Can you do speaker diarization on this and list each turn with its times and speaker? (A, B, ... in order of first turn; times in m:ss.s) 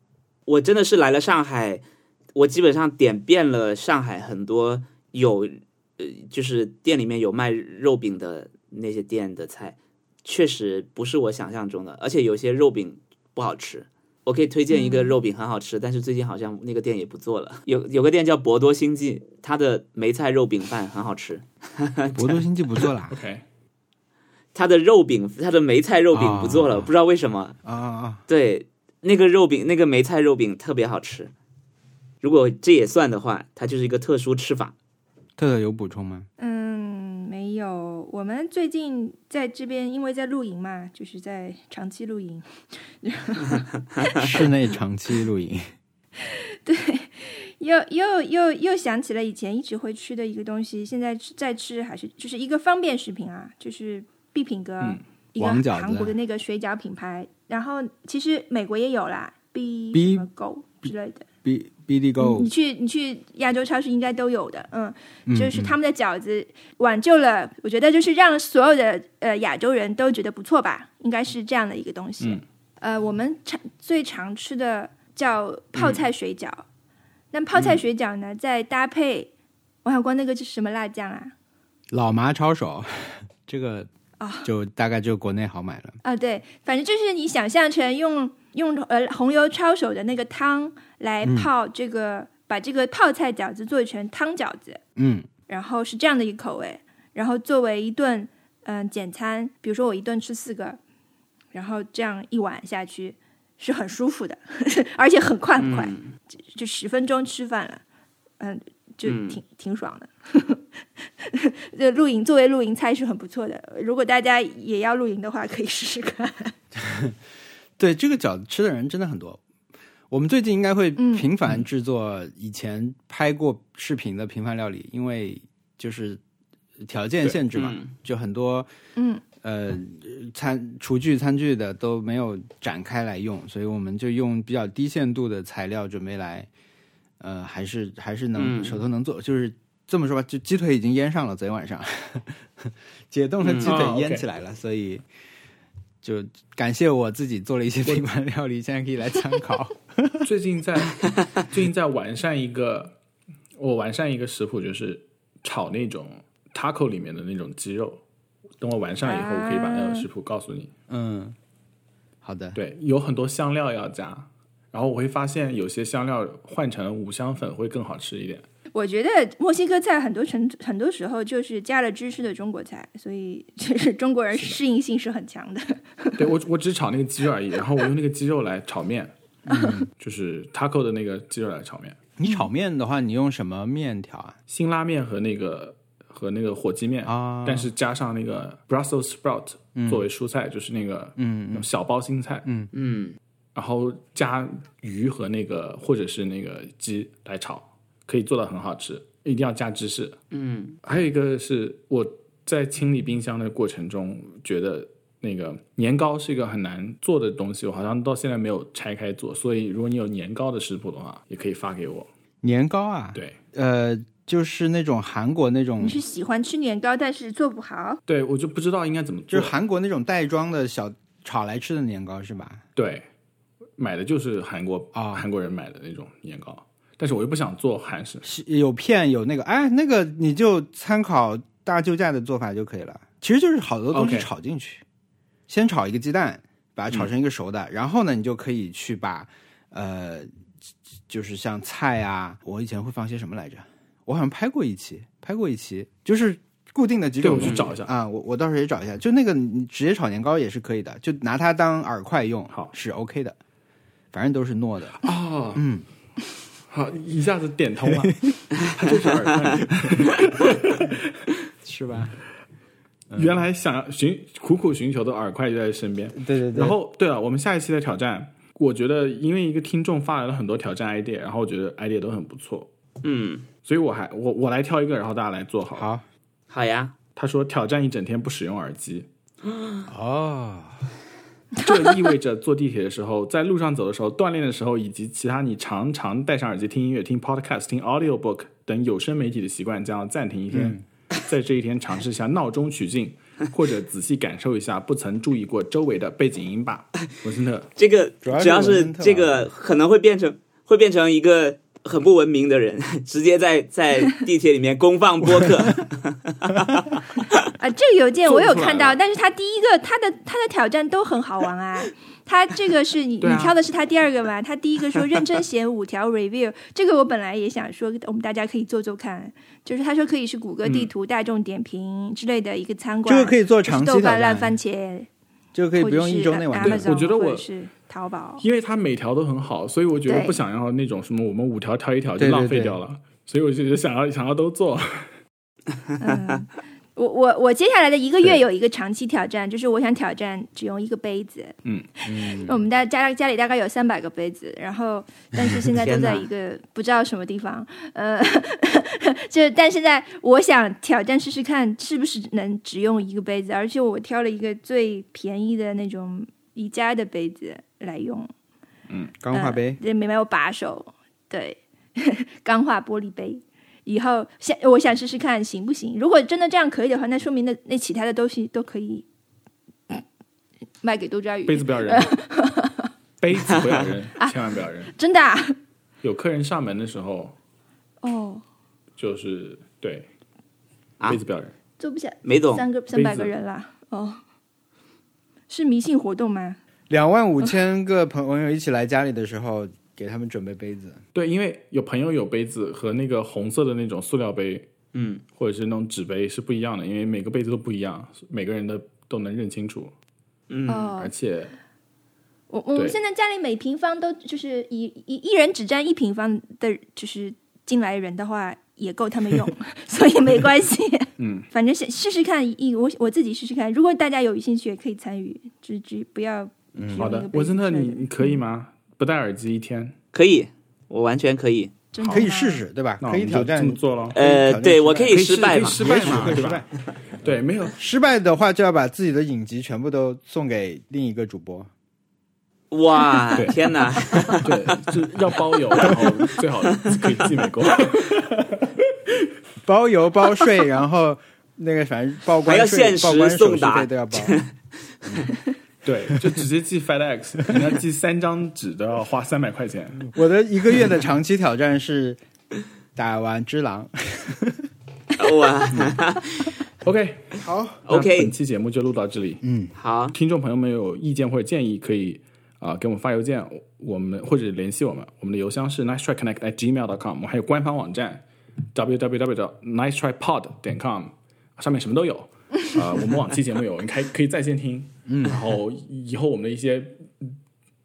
0:00.5-0:01.8 A
0:02.4-0:22.9 A
0:14.7-0:15.2 B
0:22.2-0:23.2 C
0:23.1-0:23.4 D
0:24.6-0:27.6 A
0:26.1-0:26.9 C
0:27.6-0:28.2 C
0:28.3-0:31.3 A
0:32.2-0:34.7 A
0:35.4-0:36.3 C
0:36.4-0:44.5 B
0:44.2-0:45.6 C
0:46.2-1:01.3 B
0:55.4-0:56.2 C
0:59.9-1:00.3 C
1:01.4-1:02.5 C
1:02.2-1:16.6 B
1:05.3-1:05.8 C
1:15.8-1:16.1 A
1:17.3-1:19.3 B
1:19.8-1:21.3 B
1:21.9-1:23.9 C
1:24.2-1:24.5 B
1:24.4-1:26.0 C
1:26.0-1:34.8 B
1:31.2-1:31.5 C
1:35.0-1:35.3 C
1:35.5-1:40.8 B
1:41.5-1:46.0 B
1:45.6-1:46.1 A
1:46.5-1:47.8 B
1:48.4-1:56.6 B
1:49.0-1:49.4 A
1:56.8-1:57.2 C
1:57.8-1:59.4 C
2:00.1-2:06.2 C
2:01.0-2:01.3 B
2:06.8-2:08.7 C
2:07.5-2:07.9 A
2:09.0-2:09.2 B
2:09.4-2:16.5 C
2:17.2-2:25.0 C
2:18.4-2:18.8 A
2:23.4-2:23.8 A
2:23.6-2:24.2 D
2:26.0-2:30.3 C
2:30.2-2:32.9 D
2:33.6-2:38.0 D
2:38.6-2:40.7 D
2:39.0-2:40.1 B
2:40.9-2:41.4 C
2:42.2-2:42.6 C
2:42.5-2:48.5 D
2:48.7-2:56.3 B
2:54.3-2:54.6 D
2:56.2-2:59.1 D
2:59.5-2:59.9 C
3:00.0-3:02.0 D
3:02.2-3:04.4 C
3:04.5-3:12.5 D
3:07.0-3:07.7 C
3:09.8-3:10.0 C
3:11.2-3:11.7 C
3:12.4-3:12.7 C
3:12.7-3:13.2 A
3:13.6-3:20.2 D
3:20.3-3:20.8 A
3:20.8-3:32.1 D
3:32.4-3:36.0 C
3:35.8-3:38.0 B
3:38.1-3:39.5 D
3:39.3-3:42.6 C
3:42.8-3:43.1 D
3:43.8-3:48.2 D
3:44.9-3:45.2 C
3:48.2-3:54.8 C
3:53.9-3:54.3 D
3:55.5-4:00.3 C
4:01.1-4:13.4 C
4:07.2-4:07.9 D
4:14.1-4:15.0 C
4:15.0-4:15.6 D
4:15.6-4:15.8 C
4:16.7-4:21.0 D
4:17.9-4:18.4 C
4:21.6-4:22.2 C
4:23.1-4:23.4 C
4:23.2-4:32.7 D
4:26.2-4:26.7 C
4:33.0-4:33.5 A
4:33.6-4:35.9 D
4:35.8-4:36.0 C
4:36.5-4:36.9 A
4:37.2-4:39.1 D
4:39.5-4:39.8 A
4:39.9-4:40.8 C
4:41.6-4:57.7 D
4:50.5-4:50.8 C
4:57.8-5:07.4 A
4:58.2-4:59.5 C
5:07.6-5:25.1 B
5:08.2-5:09.0 D
5:13.2-5:13.6 D
5:20.6-5:20.9 A
5:23.0-5:24.6 C
5:25.6-5:26.9 C
5:25.8-5:28.4 B
5:26.6-5:27.5 D
5:28.4-5:35.1 D
5:30.1-5:30.4 B
5:32.2-5:32.8 C
5:36.0-5:58.3 B
5:42.1-5:42.6 C
5:45.8-5:46.3 A
5:59.2-5:59.8 C
5:59.3-6:09.0 B
6:10.8-6:12.9 B
6:11.5-6:12.1 D
6:13.2-6:14.9 D
6:14.9-6:15.6 B
6:16.0-6:17.4 D
6:18.0-6:18.4 B
6:19.0-6:20.1 D
6:21.1-6:21.5 D
6:21.8-6:24.2 B
6:22.2-6:22.7 A
6:22.9-6:23.3 D
6:25.5-6:26.6 B
6:26.9-6:31.0 C
6:31.1-6:34.7 D
6:34.9-6:35.2 A
6:35.4-6:39.9 D
6:40.5-6:40.9 A
6:40.7-6:41.1 B
6:41.0-6:41.6 D
6:42.5-6:58.4 B
6:51.2-6:51.5 D
6:56.8-6:57.1 C
6:57.0-7:00.0 D
7:00.1-7:01.7 A
7:01.9-7:02.6 B
7:02.0-7:02.3 D
7:02.1-7:06.7 C
7:03.0-7:04.2 D
7:04.1-7:06.5 A
7:05.1-7:06.6 D
7:07.2-7:07.8 D
7:07.8-7:11.7 C
7:12.7-7:14.7 A
7:14.2-7:18.7 D
7:19.6-7:24.4 C
7:22.5-7:25.2 A
7:25.8-7:30.1 D
7:30.1-7:32.2 C
7:33.0-7:34.7 C
7:35.2-7:36.5 A
7:36.8-7:39.4 D
7:37.4-7:37.8 C
7:37.9-7:38.3 A
7:39.4-7:39.7 C
7:39.8-7:40.2 A
7:40.1-7:48.2 D
7:48.7-7:57.4 D
7:55.1-7:55.4 C